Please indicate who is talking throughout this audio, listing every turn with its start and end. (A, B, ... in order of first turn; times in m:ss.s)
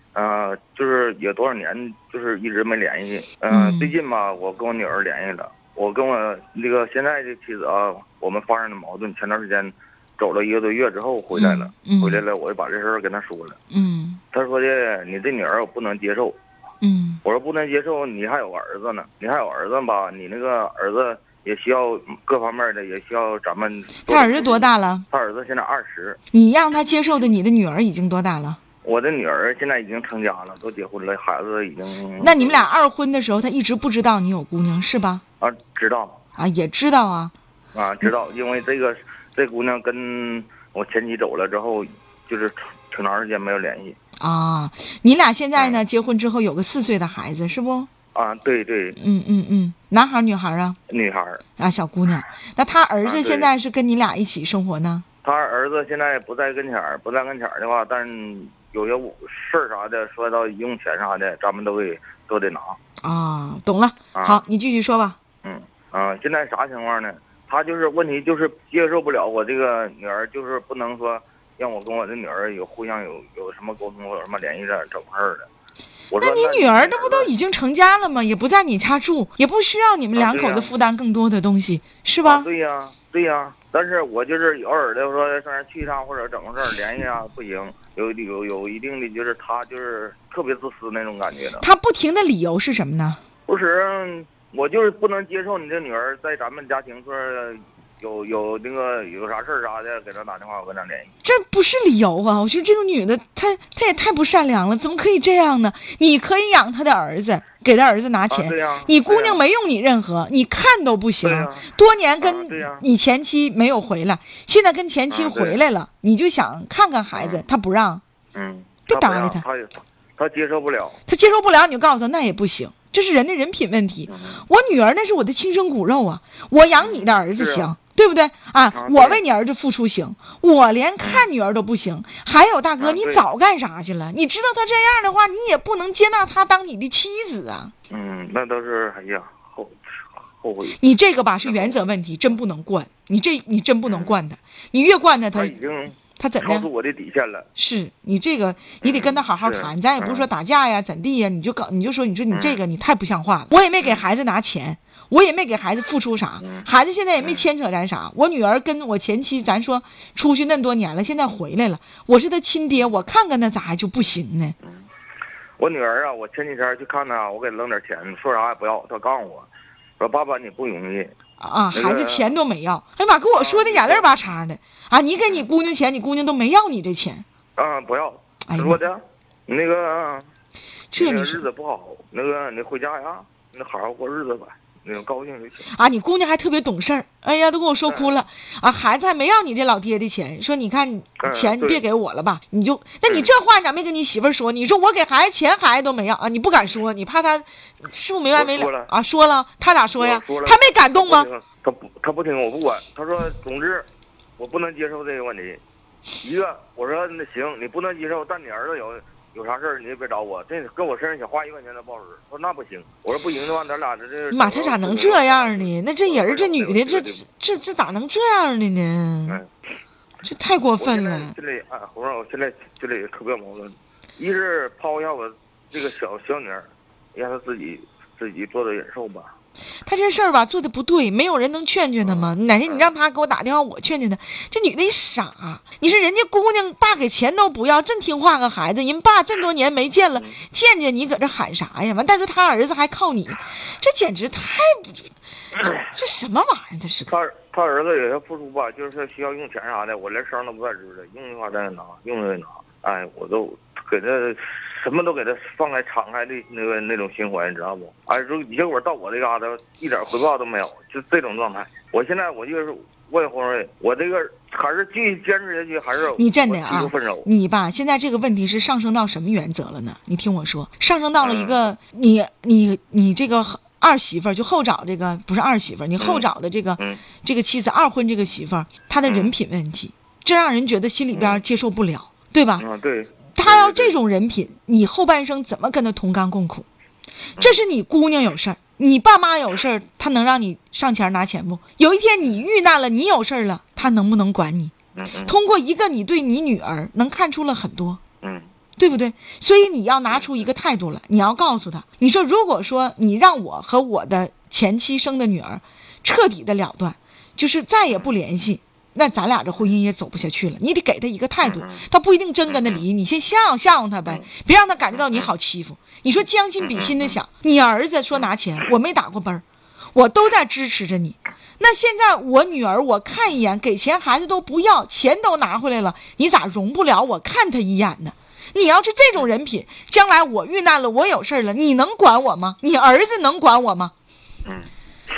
0:00.1-0:13.6 A
0:03.5-0:04.0 B
0:11.3-0:12.2 B
0:13.7-0:14.2 B
0:14.3-0:16.4 A
0:16.8-0:17.2 B
0:17.2-0:26.2 A
0:24.1-0:25.0 B
0:26.3-0:28.6 B
0:28.8-0:32.7 A
0:32.2-0:35.2 B
0:35.4-0:36.2 A
0:36.4-0:37.3 B
0:37.7-0:44.0 A
0:44.2-0:47.9 B
0:45.6-0:45.8 A
0:48.1-0:49.0 A
0:49.0-0:50.8 B
0:50.9-0:51.4 A
0:51.6-0:55.0 B
0:53.0-0:53.5 A
0:55.2-1:02.8 A
1:03.0-1:05.2 B
1:04.2-1:04.4 A
1:05.4-1:15.5 A
1:16.1-1:17.3 A
1:16.2-1:22.5 B
1:20.1-1:20.7 A
1:22.2-1:31.6 A
1:31.6-1:33.2 B
1:33.5-1:41.1 A
1:41.2-1:58.0 B
1:48.3-1:49.4 A
1:51.2-1:51.7 A
1:52.2-1:52.8 A
1:55.1-1:55.6 A
1:57.1-1:57.4 A
1:58.3-2:01.0 A
1:58.9-1:59.4 B
2:01.1-2:17.7 B
2:04.1-2:04.4 A
2:06.8-2:07.7 A
2:08.7-2:09.2 A
2:11.0-2:11.3 A
2:12.8-2:13.2 A
2:17.9-2:20.8 A
2:20.8-2:25.5 B
2:21.4-2:21.9 A
2:23.8-2:24.2 A
2:25.3-2:27.4 A
2:26.1-2:26.7 B
2:27.6-2:44.5 B
2:28.8-2:30.3 A
2:32.3-2:32.6 A
2:36.4-2:36.7 A
2:37.2-2:37.4 A
2:45.6-2:51.1 A
2:51.4-2:57.2 B
2:51.7-2:52.4 A
2:53.3-2:54.1 A
2:57.6-3:00.3 A
2:58.4-2:58.8 B
3:00.9-3:01.4 B
3:00.9-3:05.7 A
3:05.7-3:21.3 B
3:07.8-3:08.2 A
3:11.2-3:11.8 A
3:13.0-3:13.3 A
3:18.3-3:18.9 A
3:20.0-3:25.6 A
3:26.2-3:37.2 A
3:34.3-3:39.4 B
3:40.2-3:41.3 B
3:40.8-3:49.3 A
3:49.8-4:05.0 B
3:52.0-3:52.9 A
4:00.1-4:00.4 A
4:05.8-4:07.2 B
4:07.1-4:27.3 A
4:26.1-4:42.6 B
4:31.2-4:31.7 A
4:36.0-4:36.2 A
4:39.0-4:39.3 A
4:41.1-4:41.4 A
4:42.6-4:44.0 A
4:43.4-4:46.6 B
4:47.4-4:54.7 B
4:54.9-4:55.4 A
4:55.2-4:58.0 B
4:58.2-4:58.5 A
4:58.8-5:19.4 B
5:00.1-5:00.4 A
5:07.9-5:08.1 A
5:11.4-5:11.8 A
5:12.5-5:12.8 A
5:14.9-5:15.3 A
5:16.6-5:17.2 A
5:19.9-5:33.9 B
5:34.4-5:34.7 A